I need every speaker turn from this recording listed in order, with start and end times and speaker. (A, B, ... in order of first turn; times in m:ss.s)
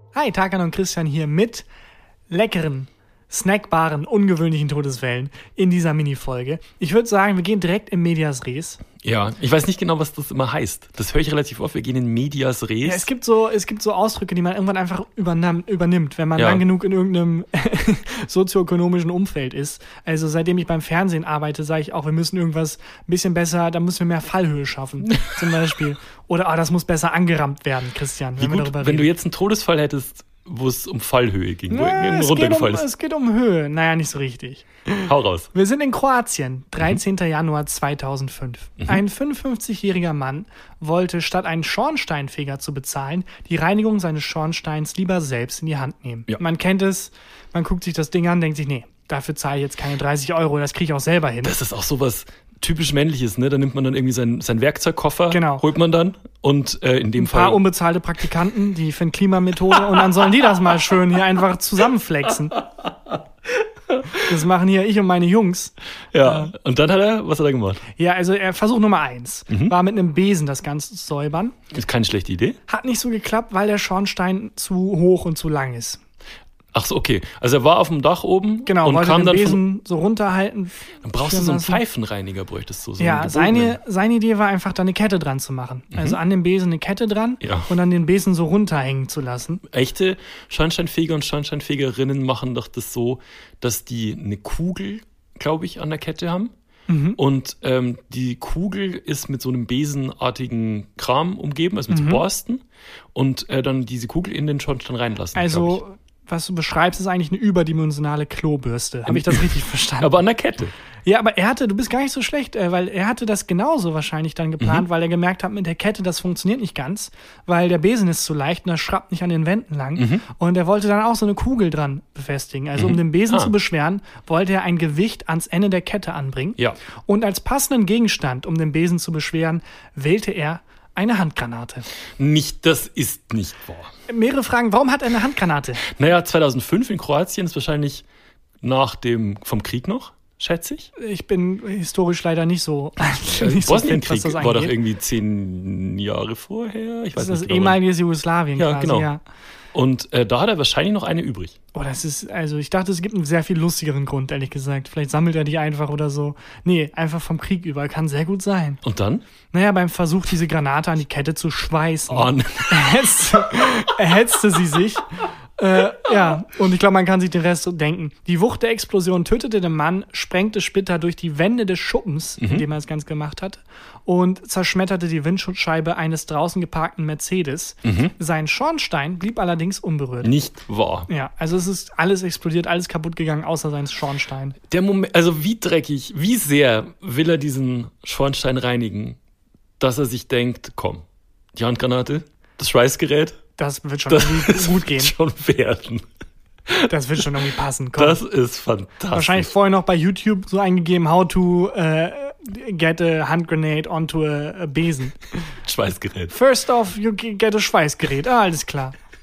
0:00.1-0:01.7 A
0:02.3-0:08.8 A
0:09.0-0:13.1 B
0:12.8-0:29.1 A
0:16.4-0:16.6 B
0:28.4-0:32.9 B
0:31.7-0:35.0 A
0:35.0-0:35.5 B
0:35.5-0:51.6 A
0:51.4-0:57.6 B
0:55.3-0:55.7 A
0:57.2-1:02.6 A
0:59.9-1:00.2 B
1:03.9-1:04.2 B
1:04.2-1:06.5 A
1:06.1-1:07.8 B
1:08.0-1:11.6 A
1:09.5-1:09.8 B
1:11.7-1:12.6 B
1:12.7-1:16.0 A
1:16.7-1:19.6 B
1:18.7-1:21.8 A
1:21.0-1:23.8 B
1:23.0-1:29.6 A
1:25.9-1:26.2 B
1:27.4-1:27.7 B
1:29.7-1:36.5 B
1:36.9-1:37.2 A
1:37.2-1:42.6 B
1:41.9-1:42.2 A
1:43.2-1:45.8 B
1:45.3-1:50.2 A
1:49.1-1:50.7 B
1:51.1-2:11.9 A
1:54.6-1:54.9 B
2:00.0-2:00.3 B
2:02.8-2:03.5 B
2:12.2-2:13.9 B
2:14.1-2:15.8 A
2:15.9-2:18.0 B
2:18.6-2:20.9 B
2:21.0-2:24.8 A
2:23.3-2:27.8 B
2:27.2-2:29.2 A
2:28.6-2:29.1 B
2:29.7-2:31.6 B
2:31.7-2:38.8 A
2:38.8-2:39.2 B
2:39.5-3:00.3 A
2:42.1-2:43.9 B
2:52.4-2:52.6 B
2:57.8-2:58.1 B
3:00.2-3:01.1 B
3:01.1-3:04.6 A
3:04.7-3:09.2 B
3:09.8-3:13.4 B
3:13.6-3:15.1 A
3:14.1-3:16.1 B
3:16.7-3:19.5 B
3:16.9-3:18.2 A
3:19.1-3:25.2 A
3:25.6-3:26.3 B
3:26.3-3:29.0 A